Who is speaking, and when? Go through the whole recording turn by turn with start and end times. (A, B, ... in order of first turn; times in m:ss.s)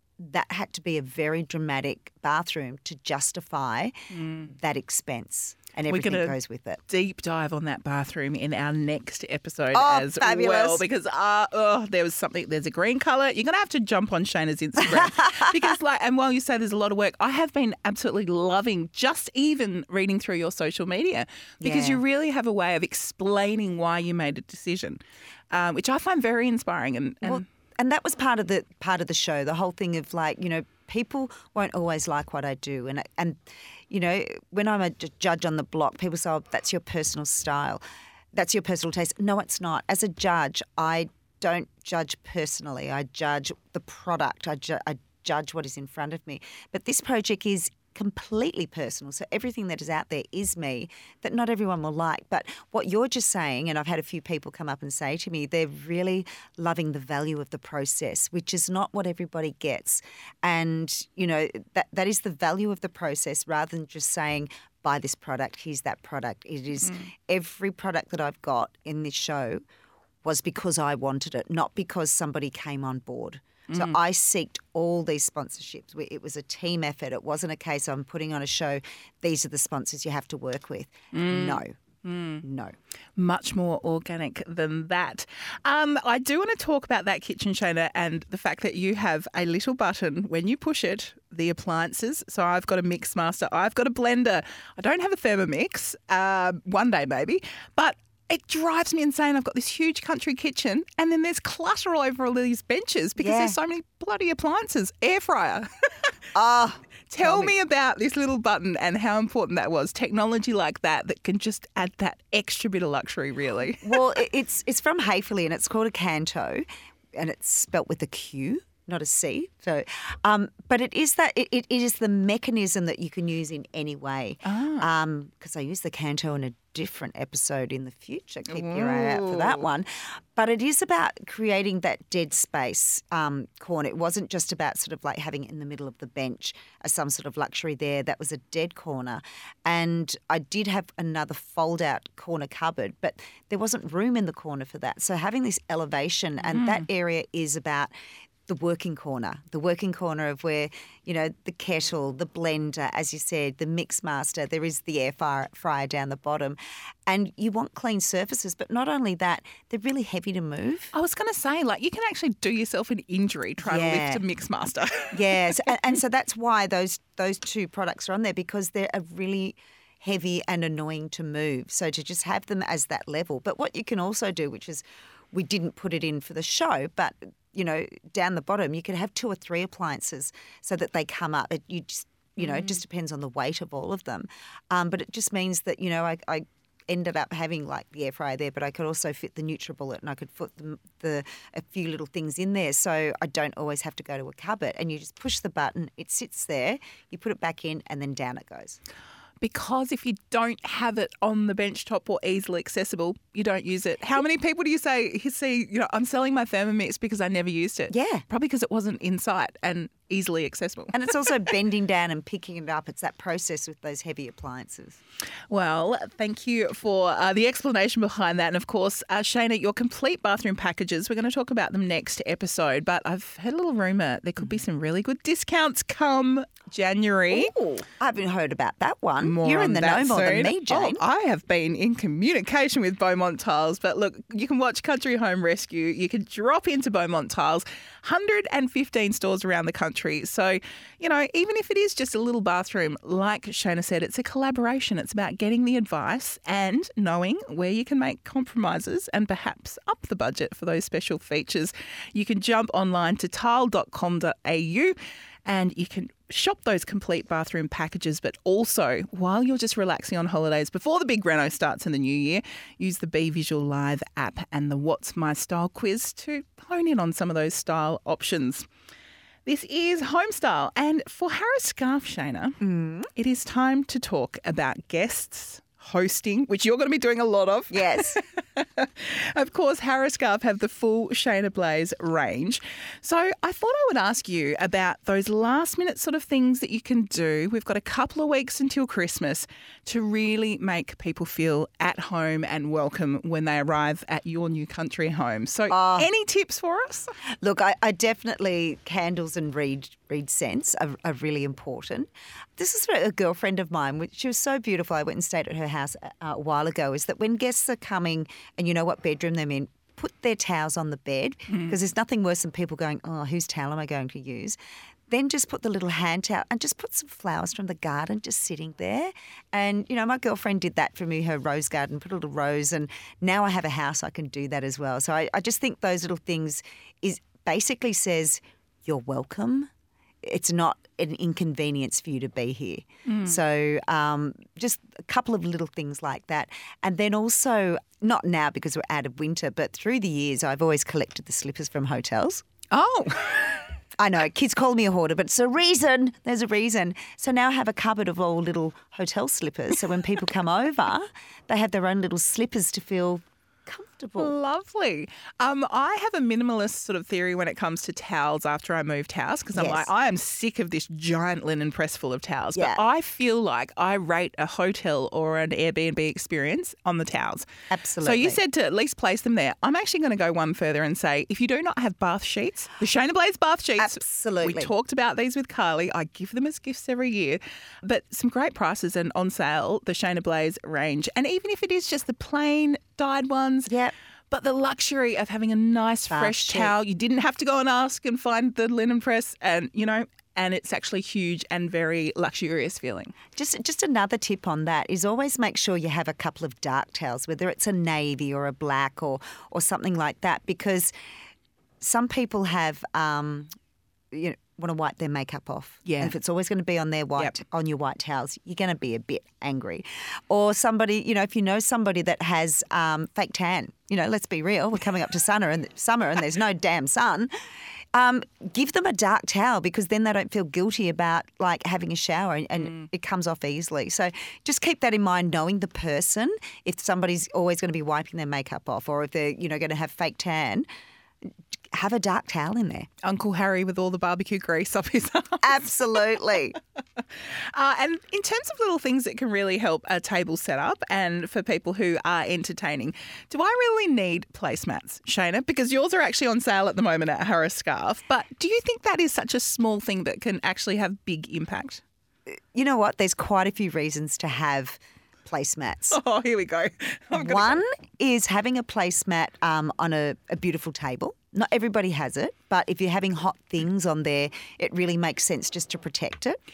0:00.2-0:06.8 A
0:04.1-0:04.5 B
0:05.9-0:06.4 B
0:06.9-0:25.0 B
0:09.7-0:10.8 A
0:14.9-0:15.5 A
0:21.6-0:22.0 A
0:25.5-0:27.4 B
0:27.2-0:33.4 A
0:33.9-0:37.8 A
0:38.3-1:09.6 A
1:10.2-1:21.8 A
1:13.7-1:14.0 B
1:21.1-1:22.4 B
1:22.4-1:22.8 A
1:23.2-1:46.1 B
1:43.2-1:43.6 A
1:46.4-1:47.5 A
1:47.1-1:54.1 B
1:53.8-2:27.9 A
2:04.4-2:04.9 B
2:08.5-2:09.7 B
2:26.4-2:26.9 B
2:28.5-2:40.9 A
2:40.9-2:45.6 B
2:43.6-2:44.2 A
2:45.1-3:18.8 A
3:02.4-3:02.8 B
3:19.4-3:31.3 B
3:27.9-3:28.2 A
3:30.9-3:35.0 A
3:35.5-3:47.5 B
3:47.3-3:51.0 A
3:49.2-4:28.7 B
4:29.4-4:32.6 B
4:32.6-4:33.1 A
4:33.2-4:57.1 B
4:37.7-4:38.2 A
4:55.7-4:56.1 A
4:57.4-5:14.6 A
5:11.5-5:11.8 B
5:15.1-5:29.7 A
5:30.2-5:42.4 A
5:33.1-5:33.4 B
5:42.7-5:43.7 B
5:44.0-5:54.3 A
5:54.2-6:07.5 B
5:59.5-5:59.9 A
6:02.6-6:02.8 A
6:07.7-6:08.4 A
6:08.0-6:23.7 B
6:13.8-6:14.7 A
6:23.7-6:23.9 A
6:24.3-6:33.2 B
6:26.1-6:26.7 A
6:33.4-6:40.9 A
6:41.8-6:43.5 A
6:44.1-6:57.3 A
6:45.9-6:46.1 B
6:57.9-7:10.7 A
7:11.7-7:12.9 A
7:13.0-7:31.8 B
7:15.4-7:16.6 A
7:32.5-7:36.0 A
7:35.9-7:37.6 B
7:37.1-7:46.4 A